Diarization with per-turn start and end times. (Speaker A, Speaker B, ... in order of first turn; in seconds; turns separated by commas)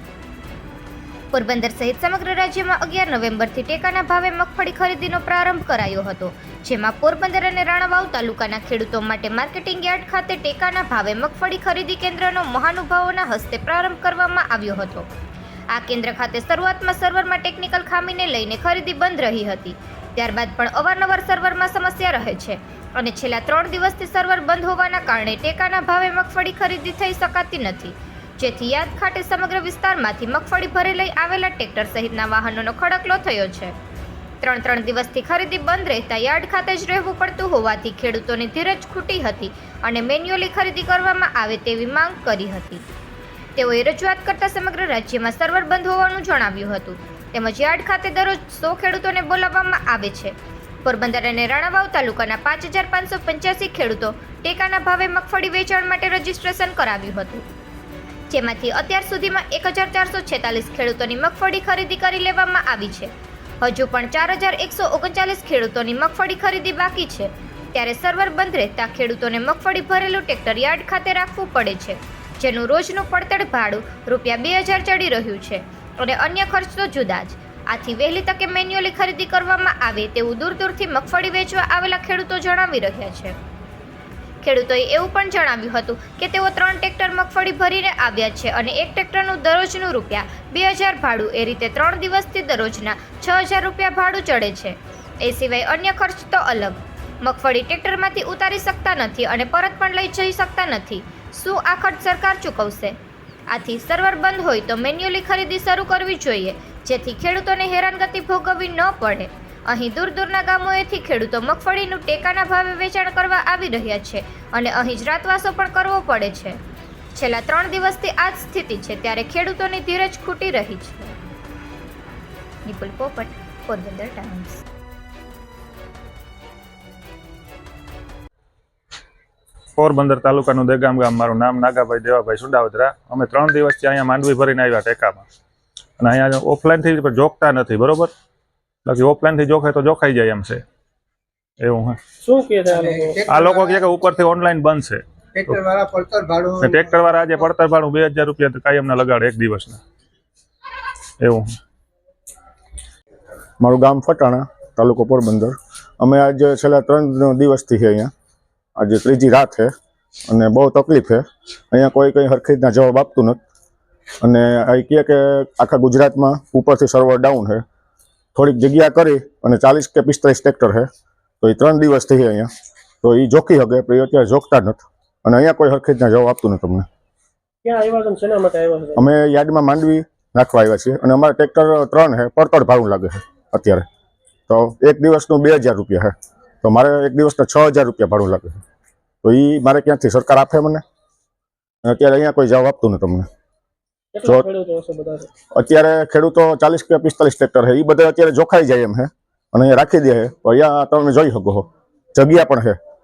Speaker A: 1.3-15.1, Speaker A: 15.7-33.8, Speaker A: 34.4-42.8, Speaker A: 43.5-57.5, Speaker A: 58.3-83.3, Speaker A: 84.4-103.0, Speaker A: 103.5-116.6, Speaker A: 117.1-121.1, Speaker A: 122.6-124.6, Speaker B: 129.8-135.2, Speaker B: 136.0-138.1, Speaker B: 138.8-140.6, Speaker B: 141.6-142.0, Speaker C: 142.2-143.3, Speaker D: 142.9-143.6, Speaker B: 143.3-145.6, Speaker D: 145.3-146.8, Speaker B: 146.6-149.8, Speaker B: 151.2-151.6, Speaker E: 153.6-158.1, Speaker E: 158.8-159.7, Speaker E: 160.3-163.4, Speaker E: 164.2-167.6, Speaker E: 168.3-170.9, Speaker E: 171.4-172.5, Speaker E: 173.0-176.8, Speaker C: 177.6-179.0, Speaker E: 178.9-183.8, Speaker E: 184.5-188.6, Speaker E: 189.2-190.8, Speaker E: 191.8-193.2, Speaker C: 194.1-195.3, Speaker E: 195.5-202.8